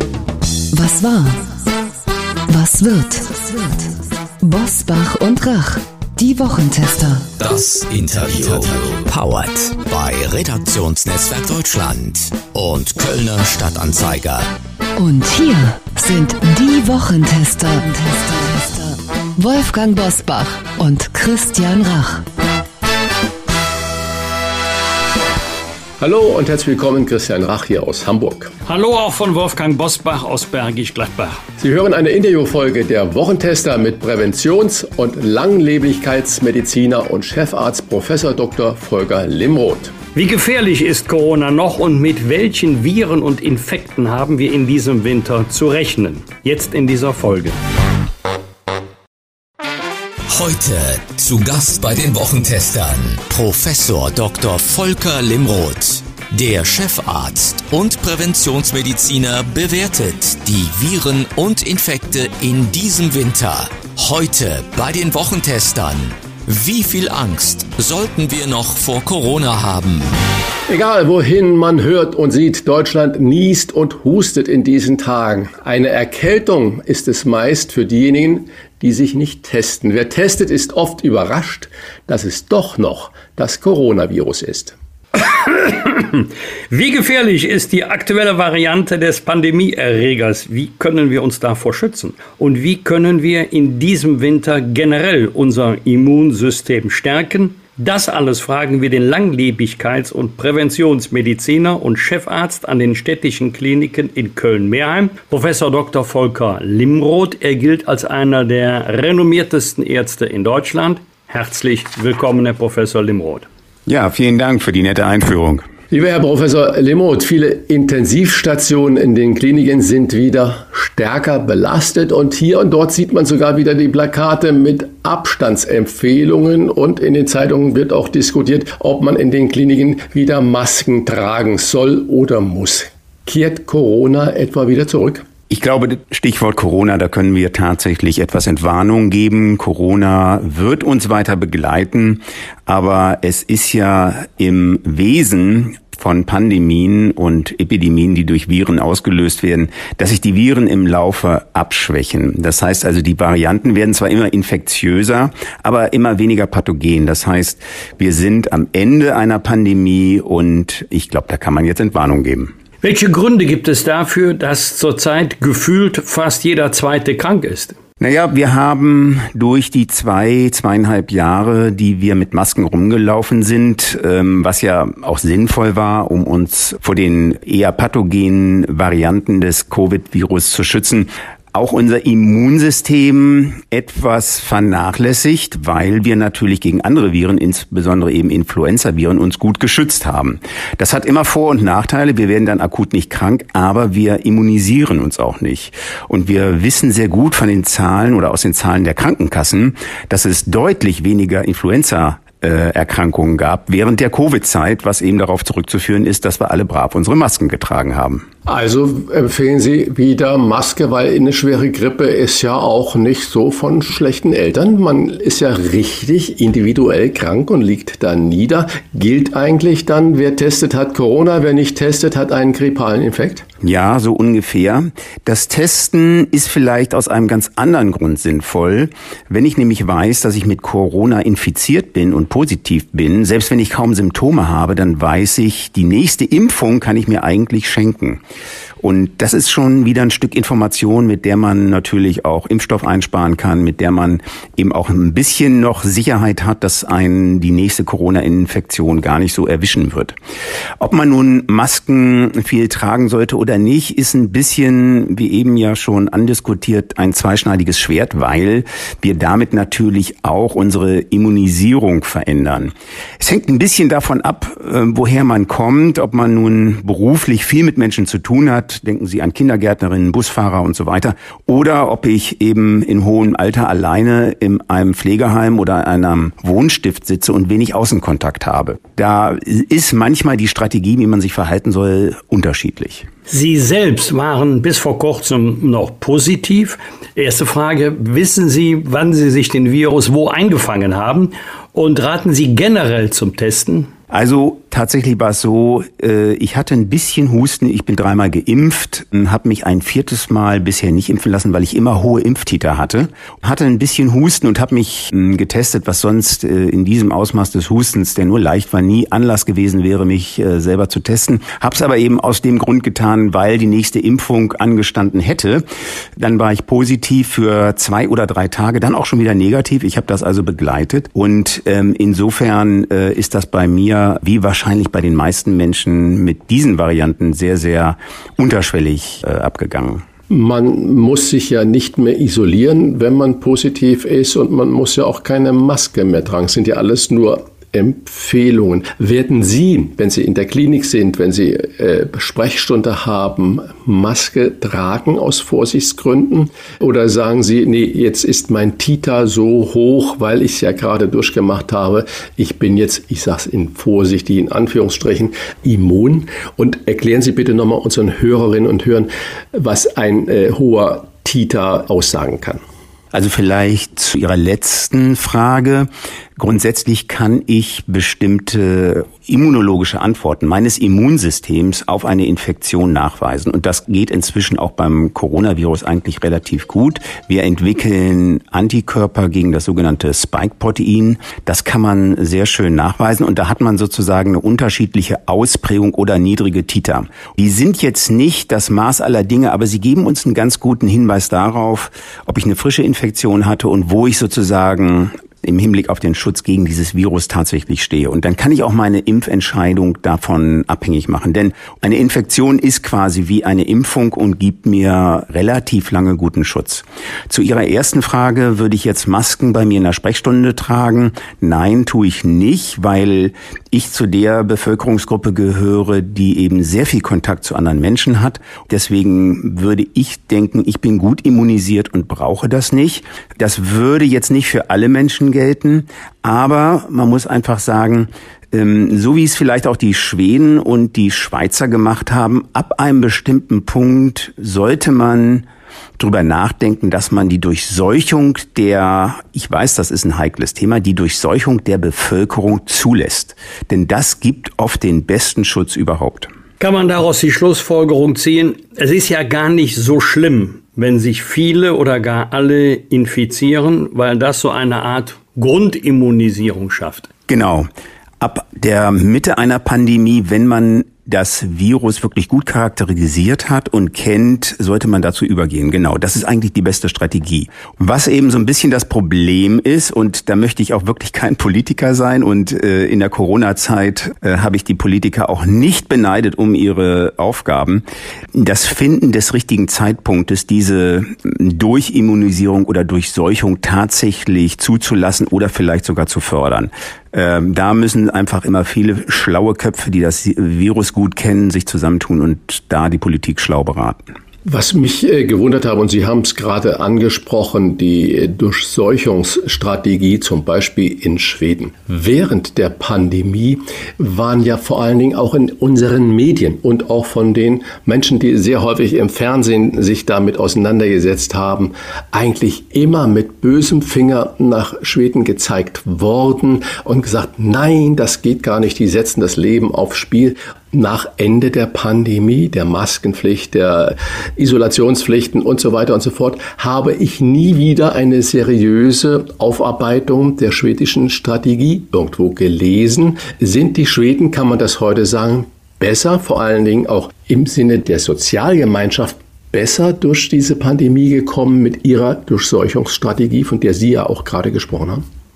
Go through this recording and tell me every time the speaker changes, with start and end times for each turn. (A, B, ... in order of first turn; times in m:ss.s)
0:00.7-0:01.5 A
0:02.5-0:07.3 A
0:07.4-0:14.5 B
0:15.0-0:22.2 A
0:26.0-0:28.5 C
0:28.6-0:31.4 D
0:31.6-0:39.9 C
0:40.1-0:47.6 D
0:50.3-1:10.1 B
1:10.7-1:24.7 C
1:25.2-1:53.5 D
1:53.9-1:55.6 E
1:55.9-2:15.2 C
2:15.5-2:42.5 E
2:42.8-2:47.7 D
2:48.0-3:28.2 E
3:28.4-3:43.4 C
3:43.6-3:58.2 E
3:58.8-4:10.1 E
4:10.8-4:43.1 E
4:43.3-4:53.9 D
4:54.1-5:15.6 E
5:16.2-5:30.0 E
5:30.3-6:02.6 C
6:03.1-7:15.5 E
7:16.0-7:26.3 E
7:26.6-7:37.1 D
7:37.3-7:37.6 E
7:38.2-7:57.8 E
7:58.3-8:14.0 E
8:14.4-9:05.0 C